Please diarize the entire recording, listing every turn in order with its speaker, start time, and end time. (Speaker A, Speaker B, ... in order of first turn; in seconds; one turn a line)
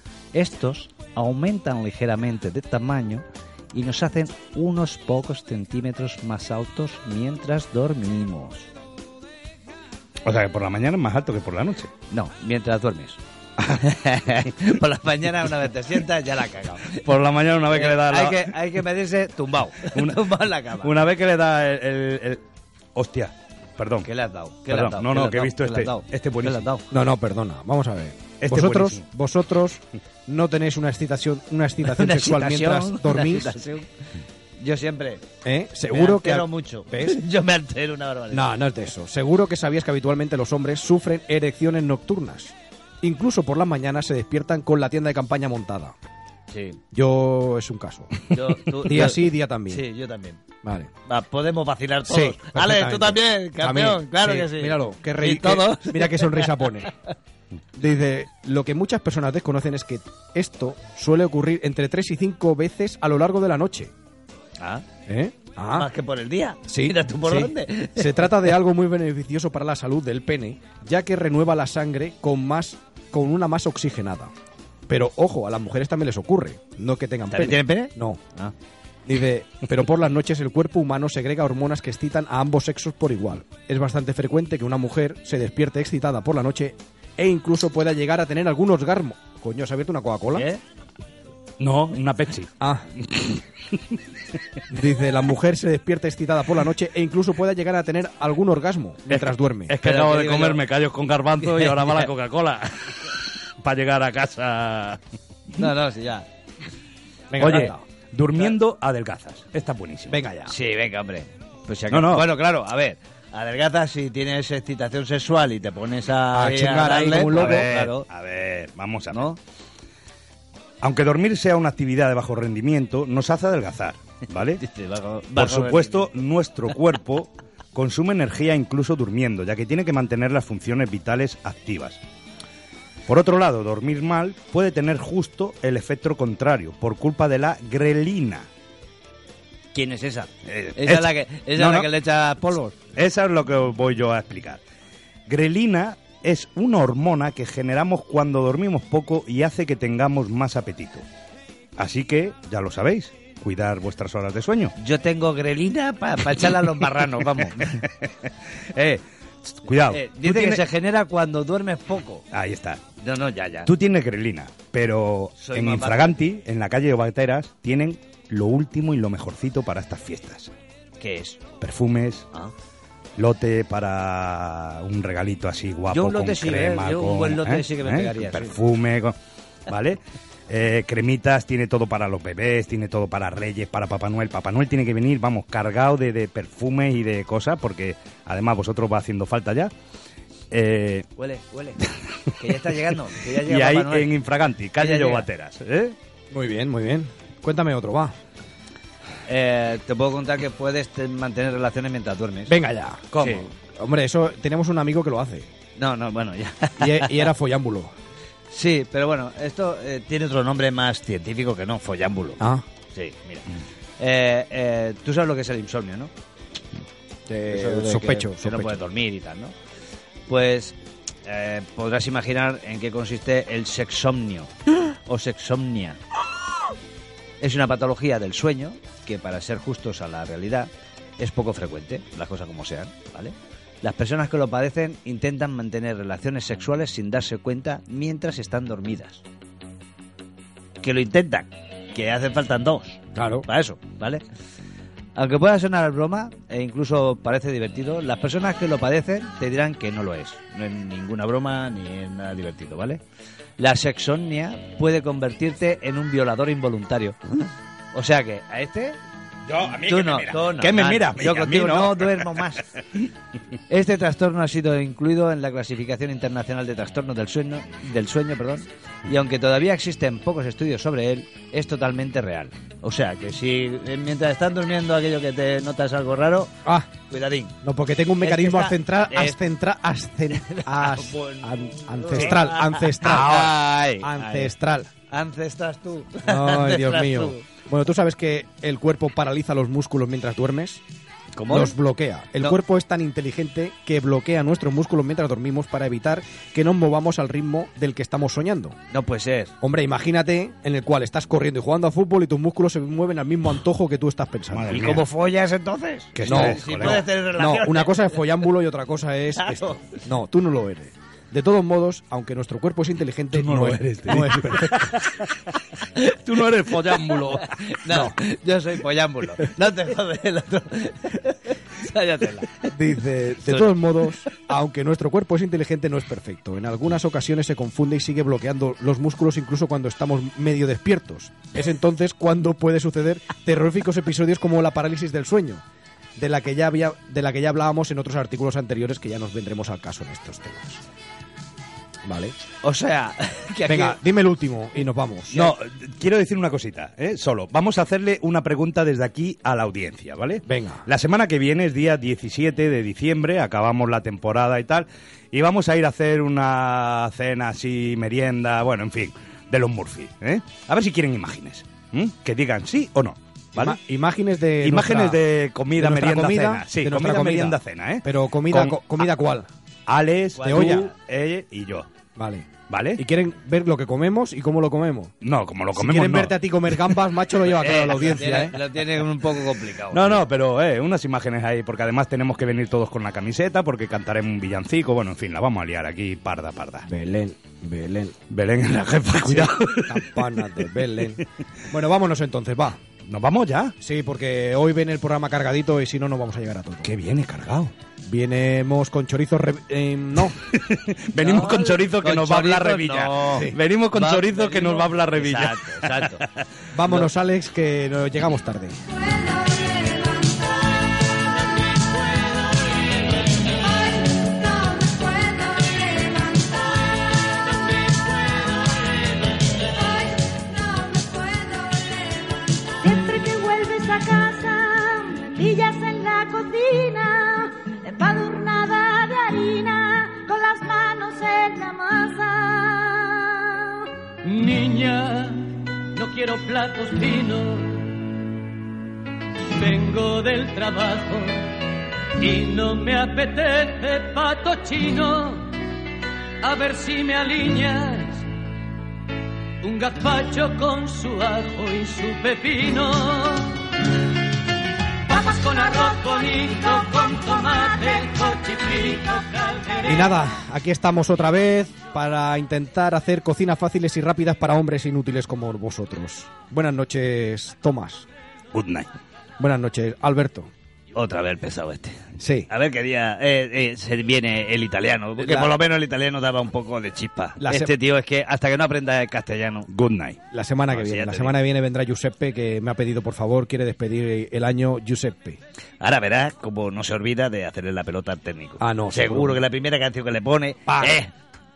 Speaker A: 0.3-8.7
Speaker B: 10.2-11.9
Speaker A: 12.1-13.2
Speaker B: 13.6-13.8
Speaker A: 13.8-17.0
Speaker B: 16.9-18.6
Speaker A: 17.7-21.0
Speaker B: 19.9-20.2
Speaker B: 20.8-22.4
Speaker B: 22.9-24.1
Speaker A: 24.0-26.8
Speaker B: 24.7-26.6
Speaker C: 26.9-33.6
Speaker B: 28.4-29.0
Speaker A: 31.9-33.9
Speaker A: 34.6-35.2
Speaker C: 35.4-37.2
Speaker A: 35.9-38.5
Speaker C: 38.3-45.9
Speaker A: 46.5-46.8
Speaker C: 46.9-48.2
Speaker A: 48.3-50.4
Speaker C: 48.8-49.9
Speaker C: 50.6-50.9
Speaker A: 51.1-56.6
Speaker C: 52.1-56.9
Speaker C: 57.7-63.9
Speaker A: 64.6-64.8
Speaker C: 65.1-65.9
Speaker A: 65.7-68.5
Speaker C: 66.6-74.3
Speaker C: 74.9-78.2
Speaker A: 77.3-78.5
Speaker C: 79.0-90.5
Speaker A: 90.3-90.6
Speaker B: 91.6-94.0
Speaker C: 92.6-92.9
Speaker C: 94.7-99.7
Speaker B: 99.1-105.0
Speaker A: 99.8-100.6
Speaker A: 101.4-102.1
Speaker A: 105.5-106.3
Speaker C: 107.3-107.8
Speaker B: 107.4-110.3
Speaker C: 110.1-110.5
Speaker A: 110.5-118.0
Speaker B: 111.9-112.3
Speaker C: 116.3-117.7
Speaker B: 117.3-119.3
Speaker A: 119.1-119.4
Speaker B: 120.8-124.6
Speaker A: 124.6-126.1
Speaker B: 125.3-132.0
Speaker B: 133.1-138.5
Speaker A: 139.7-142.8
Speaker B: 140.4-141.9
Speaker B: 142.9-144.6
Speaker B: 145.3-151.0
Speaker B: 151.8-154.7
Speaker A: 154.8-157.8
Speaker B: 157.4-160.6
Speaker A: 159.9-162.2
Speaker B: 162.3-162.8
Speaker A: 163.0-163.7
Speaker B: 163.7-170.5
Speaker A: 165.4-166.2
Speaker A: 171.0-171.4
Speaker B: 171.6-172.3
Speaker B: 173.2-179.1
Speaker A: 175.9-178.6
Speaker B: 179.7-189.7
Speaker B: 190.5-191.1
Speaker A: 191.2-191.8
Speaker A: 192.3-194.1
Speaker B: 193.4-195.9
Speaker A: 194.8-195.2
Speaker C: 196.3-198.1
Speaker A: 199.3-202.5
Speaker C: 202.5-205.5
Speaker A: 203.1-203.4
Speaker A: 205.8-207.3
Speaker C: 206.8-207.9
Speaker A: 208.5-212.4
Speaker C: 212.4-212.6
Speaker A: 212.9-213.4
Speaker A: 214.0-216.1
Speaker C: 217.3-218.8
Speaker A: 217.5-219.5
Speaker A: 220.3-226.0
Speaker A: 227.4-239.2
Speaker A: 240.8-244.2
Speaker C: 243.1-243.4
Speaker A: 245.2-253.0
Speaker A: 253.6-259.0
Speaker B: 259.4-263.0
Speaker A: 259.9-262.6
Speaker A: 263.7-276.5
Speaker C: 276.6-276.9
Speaker A: 277.1-277.5
Speaker C: 277.6-284.9
Speaker A: 278.2-279.4
Speaker A: 280.3-284.5
Speaker A: 285.1-287.4
Speaker C: 286.2-290.8
Speaker A: 291.4-291.7
Speaker C: 291.5-298.8
Speaker A: 298.9-299.5
Speaker C: 299.6-304.9
Speaker B: 304.5-305.1
Speaker A: 304.7-308.2
Speaker B: 306.1-307.0
Speaker C: 306.2-315.0
Speaker A: 309.4-309.9
Speaker B: 313.3-315.3
Speaker B: 316.1-317.6
Speaker A: 317.4-322.7
Speaker C: 317.9-318.2
Speaker C: 322.7-335.6
Speaker A: 323.4-324.0
Speaker C: 336.2-340.8
Speaker C: 342.0-342.3
Speaker A: 342.6-344.0
Speaker C: 343.7-345.5
Speaker B: 345.3-363.8
Speaker C: 350.4-350.8
Speaker C: 363.6-365.2
Speaker B: 364.6-369.0
Speaker C: 365.8-369.5
Speaker B: 369.9-371.9
Speaker A: 370.3-370.9
Speaker C: 370.4-370.9
Speaker C: 372.1-375.1
Speaker B: 372.7-373.0
Speaker B: 375.2-376.3
Speaker C: 375.7-378.6
Speaker A: 377.6-380.2
Speaker B: 379.9-386.9
Speaker C: 386.9-388.2
Speaker B: 388.3-390.2
Speaker C: 389.2-392.8
Speaker B: 393.1-393.7
Speaker C: 393.8-396.9
Speaker B: 396.8-397.7
Speaker C: 398.1-400.4
Speaker B: 400.4-406.2
Speaker A: 401.2-406.2
Speaker C: 406.7-408.8
Speaker D: 414.7-416.5
Speaker D: 420.3-421.8
Speaker D: 422.8-433.8
Speaker E: 434.2-437.9
Speaker E: 439.5-441.5
Speaker E: 442.2-445.5
Speaker E: 446.4-448.2
Speaker E: 449.6-453.6
Speaker E: 455.1-460.2
Speaker C: 459.8-468.1
Speaker B: 468.5-468.9
Speaker C: 469.4-470.5
Speaker A: 470.9-479.7
Speaker C: 472.2-472.5
Speaker C: 475.2-475.5
Speaker C: 477.4-477.7
Speaker B: 479.7-480.2
Speaker C: 480.3-485.4
Speaker A: 480.7-481.4
Speaker A: 485.8-491.1
Speaker C: 488.6-489.4
Speaker C: 490.7-491.0